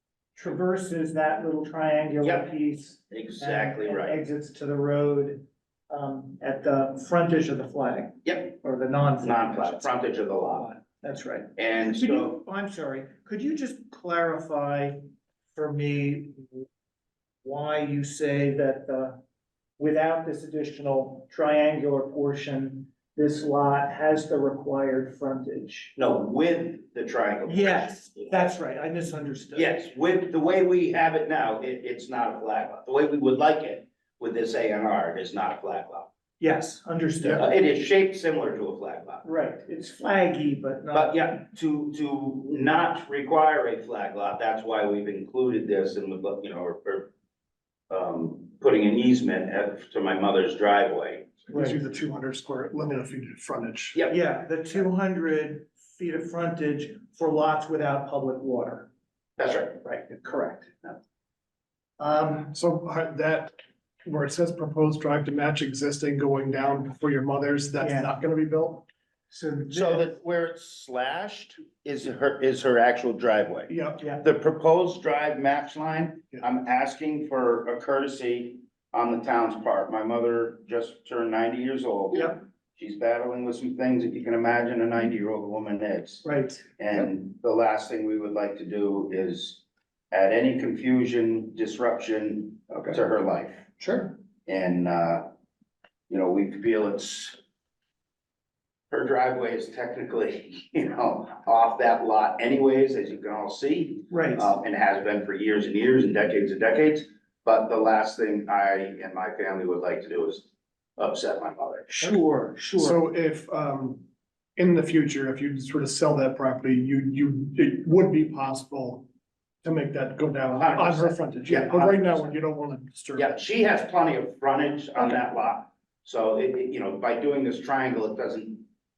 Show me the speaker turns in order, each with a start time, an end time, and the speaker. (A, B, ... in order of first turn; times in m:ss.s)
0:00.3-0:09.9 A
0:02.2-0:02.5 B
0:03.1-0:04.2 B
0:08.2-0:08.5 B
0:09.2-0:10.8 B
0:10.6-0:15.0 A
0:11.6-0:12.4 B
0:15.5-0:16.6 A
0:17.4-0:19.2 A
0:19.8-0:25.9 A
0:25.9-0:28.4 B
0:27.4-0:29.7 A
0:29.5-0:36.1 B
0:36.4-0:37.5 A
0:37.3-0:39.2 B
0:39.2-0:41.2 A
0:40.9-0:47.1 B
0:47.9-0:51.4 B
0:51.5-0:54.0 C
0:51.5-0:51.8 A
0:54.1-0:58.9 A
0:59.4-1:00.0 B
0:59.8-1:00.8 A
1:02.0-1:02.5 A
1:02.5-1:08.8 C
1:07.8-1:08.2 A
1:09.3-1:10.1 A
1:09.7-1:26.2 B
1:13.7-1:14.0 C
1:26.2-1:26.6 A
1:26.8-1:33.7 B
1:33.8-1:34.2 A
1:34.4-1:35.2 B
1:36.1-1:37.4 B
1:38.9-1:52.1 B
1:44.1-1:44.5 A
1:52.0-1:53.0 A
1:52.7-1:59.1 C
1:59.6-2:03.3 C
2:00.5-2:02.3 B
2:03.1-2:08.7 B